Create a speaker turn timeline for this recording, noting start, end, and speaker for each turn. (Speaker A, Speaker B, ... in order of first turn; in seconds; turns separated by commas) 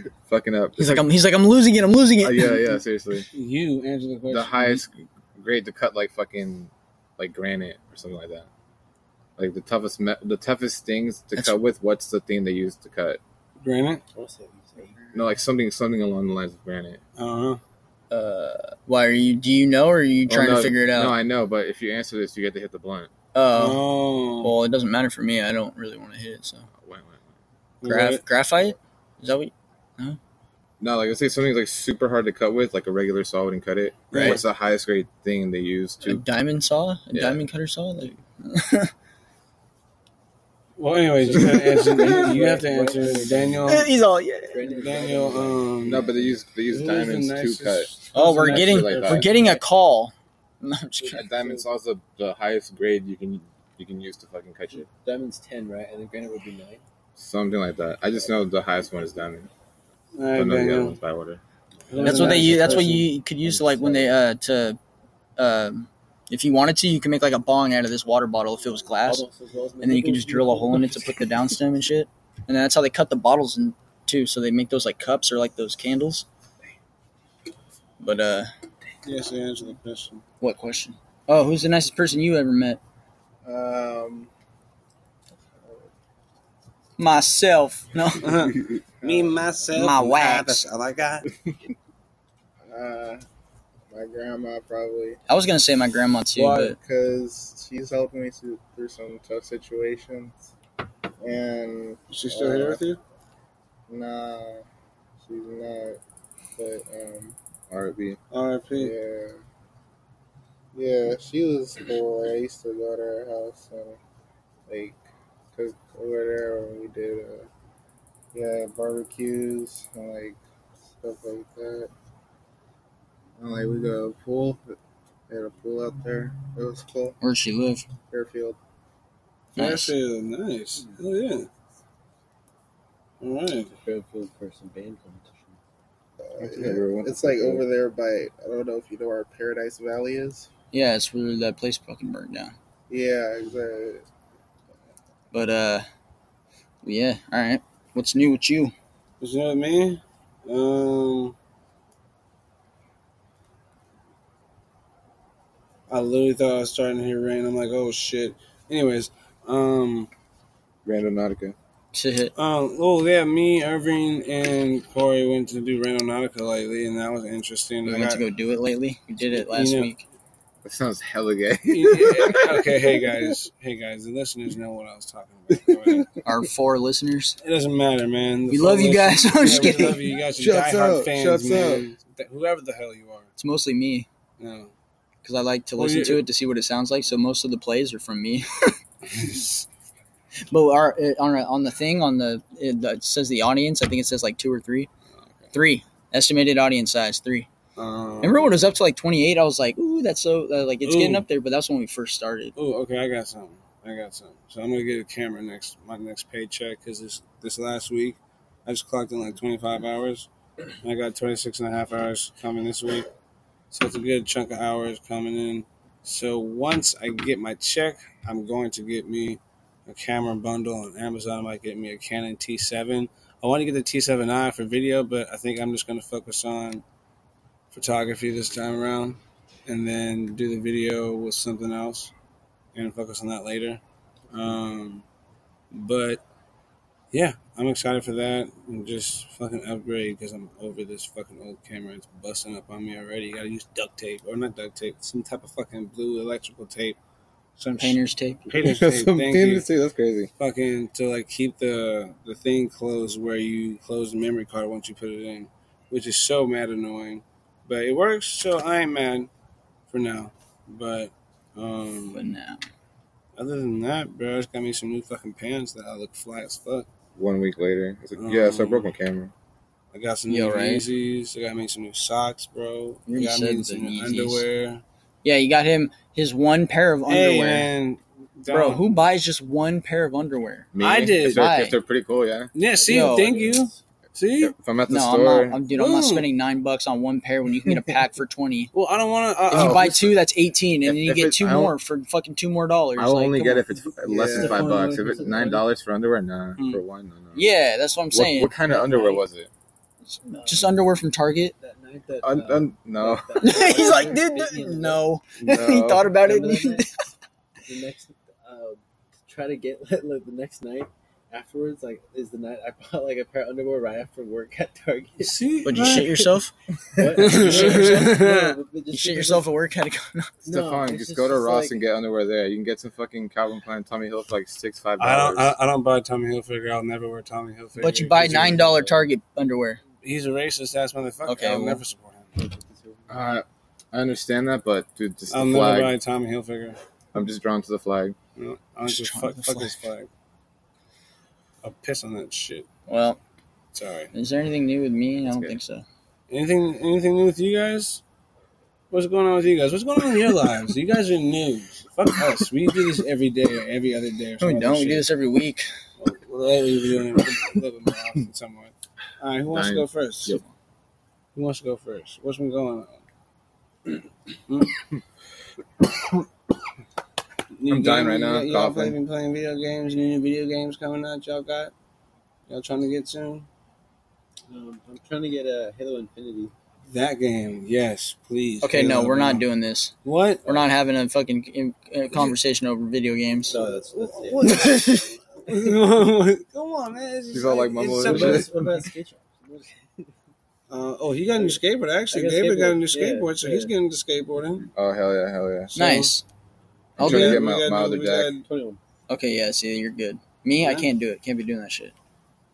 Speaker A: 0.3-1.1, Speaker B: 0.8-2.8, Speaker A: 2.2-3.3, Speaker C: 3.3-4.8, Speaker A: 4.3-8.5, Speaker A: 9.4-13.2, Speaker C: 13.6-14.0, Speaker D: 14.1-15.0, Speaker A: 15.1-17.0, Speaker C: 17.2-17.6, Speaker B: 18.1-21.2, Speaker A: 20.3-23.1, Speaker B: 23.3-23.8, Speaker C: 23.5-24.6, Speaker B: 24.4-26.7, Speaker A: 26.8-27.2, Speaker C: 27.8-28.2, Speaker B: 27.9-30.2, Speaker A: 30.8-36.2, Speaker B: 34.1-34.4, Speaker C: 34.1-34.4, Speaker B: 36.0-38.9, Speaker A: 37.1-37.4, Speaker C: 40.8-43.9, Speaker D: 41.3-43.9, Speaker B: 43.7-44.9, Speaker D: 44.5-46.4, Speaker C: 44.7-46.1, Speaker A: 45.8-47.9, Speaker C: 46.6-49.6, Speaker B: 48.1-51.2, Speaker A: 48.5-49.3, Speaker A: 51.1-54.9, Speaker D: 54.7-56.8, Speaker A: 57.2-59.5, Speaker C: 60.1-61.0, Speaker A: 60.3-61.4, Speaker C: 61.9-63.1, Speaker D: 61.9-64.2, Speaker B: 62.0-64.8, Speaker B: 65.4-69.2, Speaker D: 69.0-71.2, Speaker B: 69.8-76.2, Speaker B: 78.0-78.5, Speaker C: 79.0-80.2, Speaker B: 80.4-82.8, Speaker E: 83.5-84.3, Speaker E: 85.6-85.9, Speaker B: 87.0-88.3, Speaker C: 88.2-91.2, Speaker E: 88.2-89.6, Speaker B: 89.7-90.6, Speaker E: 92.7-93.2, Speaker E: 93.9-95.2, Speaker B: 95.3-96.8, Speaker C: 96.4-96.7, Speaker E: 96.8-100.4, Speaker E: 101.2-102.8, Speaker C: 102.1-103.0, Speaker E: 103.9-104.6, Speaker E: 105.2-106.0, Speaker E: 106.6-107.4, Speaker A: 107.7-108.2, Speaker C: 108.3-109.0, Speaker E: 108.8-109.4, Speaker E: 110.7-114.0, Speaker E: 114.7-115.0, Speaker E: 115.5-117.5, Speaker E: 118.3-120.4, Speaker E: 121.0-121.9, Speaker E: 123.4-124.8, Speaker E: 125.3-127.2, Speaker B: 127.2-127.9, Speaker E: 128.1-128.6, Speaker B: 129.6-129.9, Speaker C: 129.6-131.5, Speaker C: 133.2-133.7, Speaker D: 133.7-135.6, Speaker E: 136.2-140.5, Speaker A: 136.4-137.7, Speaker B: 140.7-142.5, Speaker E: 142.9-144.1, Speaker B: 145.3-145.9, Speaker B: 146.8-148.7, Speaker C: 149.2-151.3, Speaker C: 155.9-160.1, Speaker A: 160.8-161.6, Speaker B: 161.9-162.3, Speaker C: 162.4-168.2, Speaker B: 167.8-170.1, Speaker C: 169.3-169.9, Speaker A: 170.6-172.8, Speaker C: 171.7-176.1, Speaker B: 176.2-177.4, Speaker C: 177.4-183.3, Speaker B: 178.5-180.1, Speaker A: 180.4-181.9, Speaker B: 183.4-184.1, Speaker C: 184.4-184.7, Speaker B: 185.2-188.8, Speaker C: 185.8-186.2, Speaker C: 189.1-189.6, Speaker B: 190.5-194.9, Speaker B: 195.5-197.5, Speaker C: 197.8-198.6, Speaker B: 198.2-202.5, Speaker C: 200.8-201.2, Speaker C: 202.6-210.3, Speaker C: 210.8-213.1, Speaker C: 213.7-226.8, Speaker C: 227.7-232.1, Speaker C: 232.7-235.1, Speaker C: 235.7-236.2, Speaker C: 237.1-247.0, Speaker C: 247.6-249.7, Speaker B: 247.8-248.5, Speaker A: 248.6-250.3, Speaker C: 250.4-259.3, Speaker C: 259.9-262.3, Speaker B: 262.1-262.6, Speaker C: 263.4-266.9, Speaker A: 267.2-269.3, Speaker C: 268.2-268.9, Speaker C: 269.9-274.8, Speaker B: 270.3-270.8, Speaker B: 273.1-274.4, Speaker B: 275.2-277.7, Speaker C: 277.1-278.8, Speaker B: 278.5-280.7, Speaker A: 280.7-282.5, Speaker C: 280.8-281.5, Speaker B: 281.2-281.8, Speaker C: 282.6-284.6, Speaker D: 282.7-283.8, Speaker B: 282.9-283.4, Speaker A: 284.4-285.6, Speaker B: 284.9-288.7, Speaker C: 285.7-286.3, Speaker C: 288.7-290.1, Speaker B: 289.5-293.7, Speaker A: 289.5-290.1, Speaker A: 290.9-291.8, Speaker A: 293.0-297.5, Speaker D: 293.9-295.7, Speaker C: 296.6-296.8, Speaker B: 297.4-298.5, Speaker A: 298.1-299.5, Speaker D: 298.7-299.2, Speaker B: 300.1-301.6, Speaker D: 300.4-300.7, Speaker D: 301.6-305.0, Speaker A: 302.2-303.6, Speaker B: 303.4-307.0, Speaker A: 305.4-306.1, Speaker D: 306.1-307.1, Speaker D: 307.6-316.0, Speaker C: 315.2-316.3, Speaker B: 315.6-316.5, Speaker D: 316.9-319.5, Speaker C: 317.1-318.6, Speaker B: 317.2-318.2, Speaker B: 318.9-320.3, Speaker D: 320.4-321.8, Speaker A: 320.5-325.6, Speaker C: 325.0-329.0, Speaker B: 327.8-329.8, Speaker C: 330.0-332.3, Speaker B: 331.2-331.8, Speaker D: 332.4-333.2, Speaker A: 333.1-335.9, Speaker C: 335.3-336.8, Speaker A: 337.1-338.2, Speaker C: 338.4-340.1, Speaker B: 338.9-339.8, Speaker C: 341.6-342.7, Speaker B: 342.9-343.2, Speaker C: 343.7-344.1, Speaker B: 344.1-345.9, Speaker A: 345.2-345.6, Speaker C: 346.3-348.0, Speaker C: 348.9-355.1, Speaker B: 354.4-355.7, Speaker C: 356.0-360.4, Speaker A: 359.5-360.5, Speaker C: 361.4-363.0, Speaker C: 364.5-364.8, Speaker C: 367.6-371.7, Speaker A: 367.7-369.0, Speaker C: 372.5-373.5, Speaker D: 374.5-376.5, Speaker C: 376.9-379.4, Speaker B: 378.6-379.9, Speaker C: 380.0-380.6, Speaker B: 380.4-383.6, Speaker D: 383.5-384.7, Speaker C: 383.9-388.6, Speaker B: 384.5-385.1, Speaker A: 387.3-388.6, Speaker D: 387.9-390.1, Speaker C: 390.7-394.7, Speaker D: 392.1-393.7, Speaker A: 394.8-395.8, Speaker C: 395.7-396.1, Speaker B: 395.8-396.2, Speaker A: 397.0-398.3, Speaker B: 397.0-397.4, Speaker C: 397.0-398.4, Speaker D: 398.4-398.8, Speaker B: 399.1-401.9, Speaker C: 400.6-400.9